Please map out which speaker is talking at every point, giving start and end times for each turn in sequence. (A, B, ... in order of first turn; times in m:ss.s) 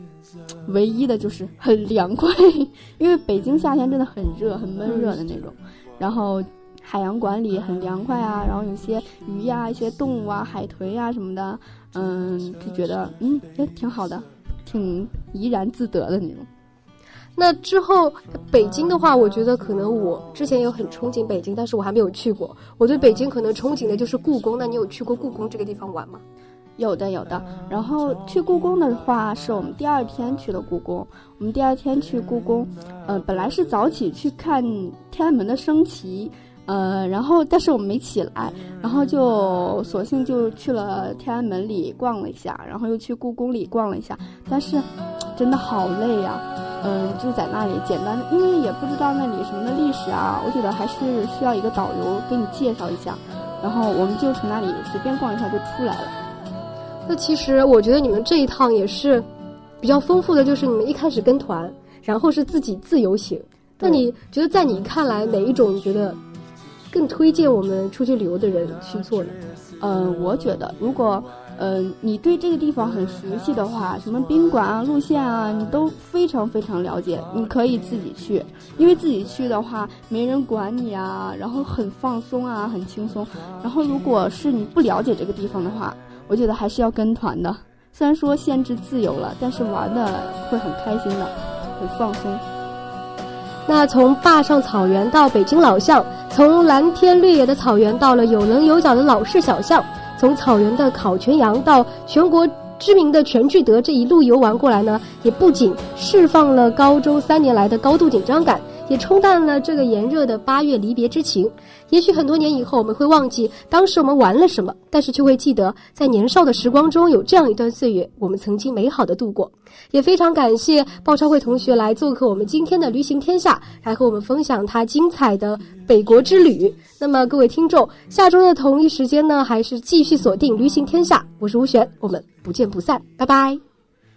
0:00.6-0:16.5 A
0:04.8-0:05.2 B
0:17.4-0:26.2 B
0:26.8-0:56.2 A
0:57.1-0:59.3 B
0:59.8-1:06.2 B
1:03.8-1:04.1 A
1:06.9-1:09.4 B
1:09.8-1:32.4 A
1:33.6-2:13.6 B